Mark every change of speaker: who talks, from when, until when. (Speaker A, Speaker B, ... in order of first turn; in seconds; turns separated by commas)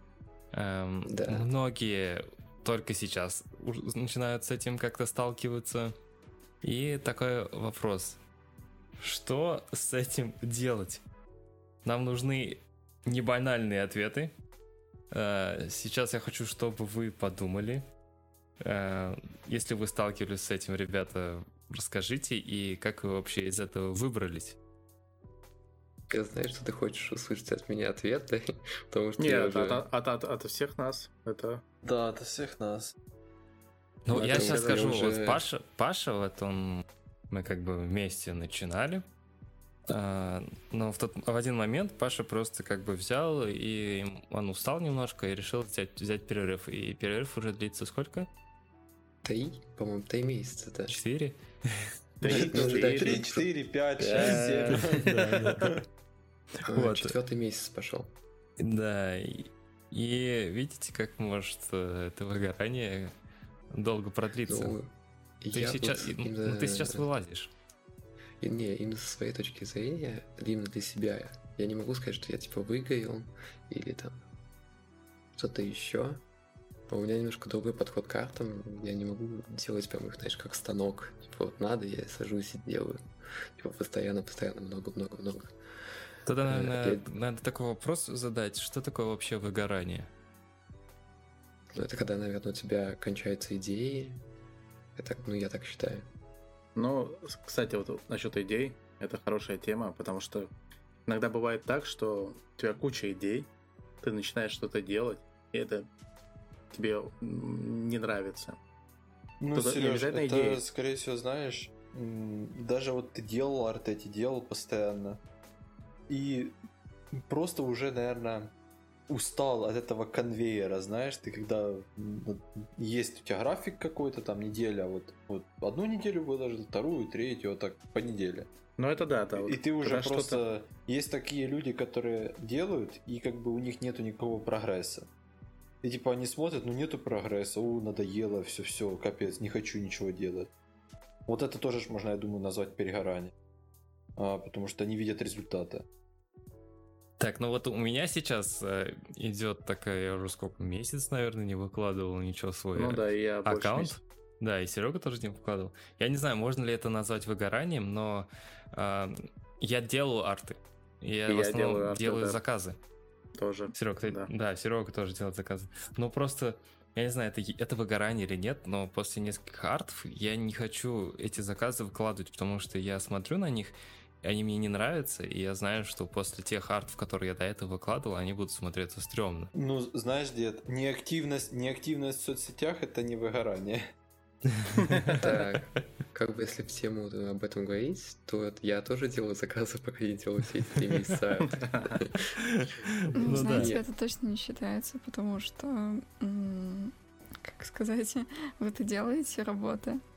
Speaker A: 0.5-5.9, Speaker B: 1.1-1.5, Speaker A: 6.6-8.2, Speaker A: 9.0-11.0, Speaker A: 11.8-14.3, Speaker A: 15.1-17.8, Speaker A: 18.6-24.6, Speaker B: 26.1-29.9, Speaker C: 29.2-31.6, Speaker D: 31.8-32.9, Speaker A: 34.0-39.1, Speaker D: 34.1-35.4, Speaker B: 34.2-35.0, Speaker A: 39.9-48.3, Speaker B: 49.2-51.0, Speaker A: 50.9-51.9, Speaker C: 52.2-53.2, Speaker B: 52.2-53.5, Speaker D: 52.2-55.8, Speaker C: 54.1-55.6, Speaker A: 54.8-55.8, Speaker B: 56.7-58.1, Speaker A: 56.7-57.1, Speaker A: 58.6-63.1, Speaker A: 63.7-64.8, Speaker B: 64.5-67.1, Speaker A: 65.5-67.5, Speaker B: 68.4-74.2, Speaker B: 75.3-76.2, Speaker B: 76.9-83.0, Speaker B: 83.6-85.5, Speaker A: 86.3-90.1, Speaker B: 86.5-87.1, Speaker B: 91.7-94.2, Speaker B: 95.0-96.1, Speaker C: 96.8-100.5, Speaker C: 101.1-103.5, Speaker C: 104.0-105.9, Speaker C: 106.7-108.6, Speaker D: 109.4-115.2, Speaker C: 109.5-110.6, Speaker D: 116.1-116.5, Speaker D: 117.1-118.5, Speaker D: 119.1-128.5, Speaker C: 128.8-130.4, Speaker D: 129.3-135.1, Speaker D: 135.8-140.5, Speaker D: 141.3-143.3, Speaker D: 144.2-145.8, Speaker A: 147.2-162.8, Speaker C: 152.8-154.0, Speaker C: 161.3-162.4, Speaker C: 163.4-164.3, Speaker A: 163.7-179.5, Speaker D: 179.5-183.9, Speaker A: 184.6-185.2, Speaker C: 184.8-185.1, Speaker B: 185.2-192.3, Speaker A: 192.4-193.7, Speaker E: 193.2-200.0, Speaker B: 193.3-193.9